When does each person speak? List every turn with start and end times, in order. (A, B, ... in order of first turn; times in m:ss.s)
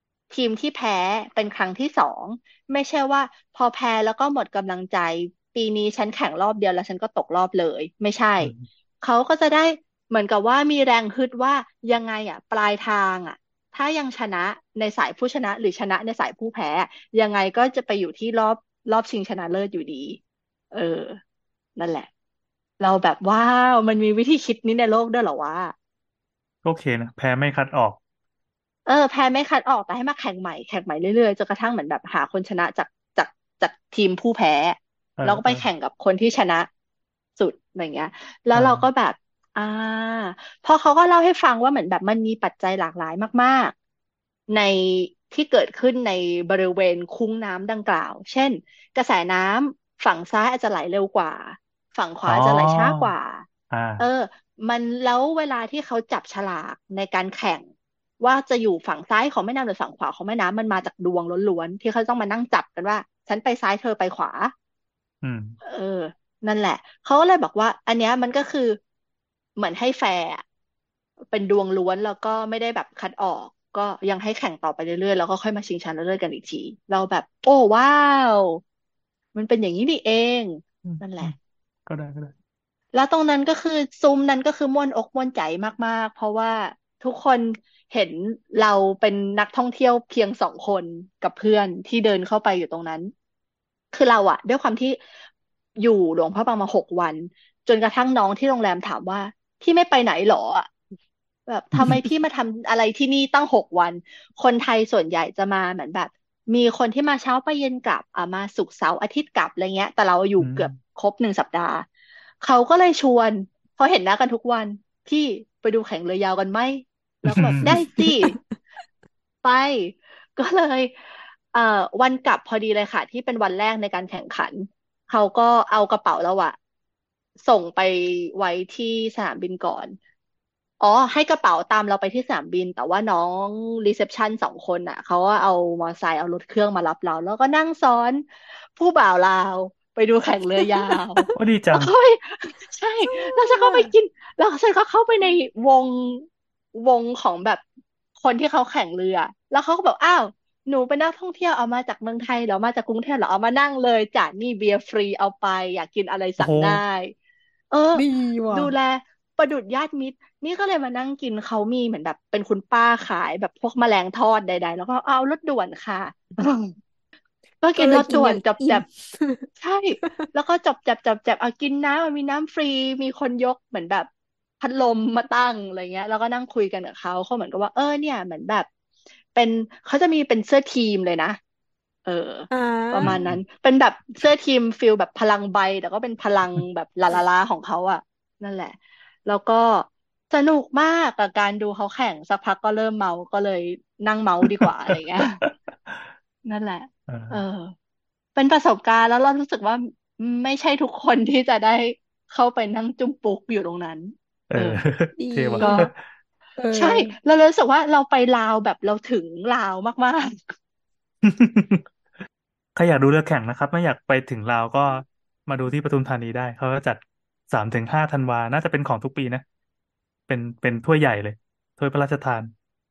0:00.3-0:20.2 A
0:08.4-0:08.7 B
0:20.7-0:21.2 A
0:21.8-0:22.1 A
0:22.8-0:25.7 A
0:26.6-0:28.0 B
0:28.8-0:36.7 A
0:35.2-0:35.6 B
0:37.4-0:43.7 A
0:38.5-0:38.8 B
0:44.5-0:53.4 A
0:52.3-0:53.1 B
0:53.7-0:54.0 B
0:54.0-0:57.7 A
0:58.2-1:04.5 A
1:05.2-1:05.6 B
1:05.6-1:08.8 A
1:09.6-1:10.4 A
1:11.3-1:18.6 A
1:19.3-1:21.3 A
1:20.8-1:21.3 B
1:21.9-1:22.3 B
1:22.9-1:33.1 A
1:33.9-1:35.0 A
1:35.8-1:40.7 A
1:41.5-1:51.9 A
1:50.4-1:50.7 B
1:52.4-1:58.4 A
1:57.2-1:57.8 B
1:57.7-1:58.6 C
1:59.4-2:06.6 A
2:07.4-2:10.0 A
2:10.8-2:27.6 A
2:20.5-2:21.3 C
2:21.4-2:21.9 B
2:23.0-2:23.9 C
2:28.2-2:37.1 A
2:36.4-2:36.8 B
2:37.7-2:46.7 A
2:37.9-2:38.7 C
2:47.6-2:48.8 A
2:47.8-2:49.5 C
2:49.6-2:54.1 A
2:50.0-2:50.3 C
2:54.6-2:58.7 A
2:59.3-3:01.4 A
3:02.0-3:15.4 A
3:02.5-3:03.1 C
3:03.0-3:03.4 B
3:15.4-3:15.9 B
3:16.4-3:17.7 A
3:17.1-3:17.4 B
3:18.4-3:24.8 A
3:24.5-3:25.9 B
3:25.2-3:25.9 C
3:25.6-3:25.9 A
3:26.6-3:27.1 C
3:26.7-3:30.5 A
3:31.2-3:31.8 B
3:32.8-3:39.4 B
3:40.3-3:42.5 B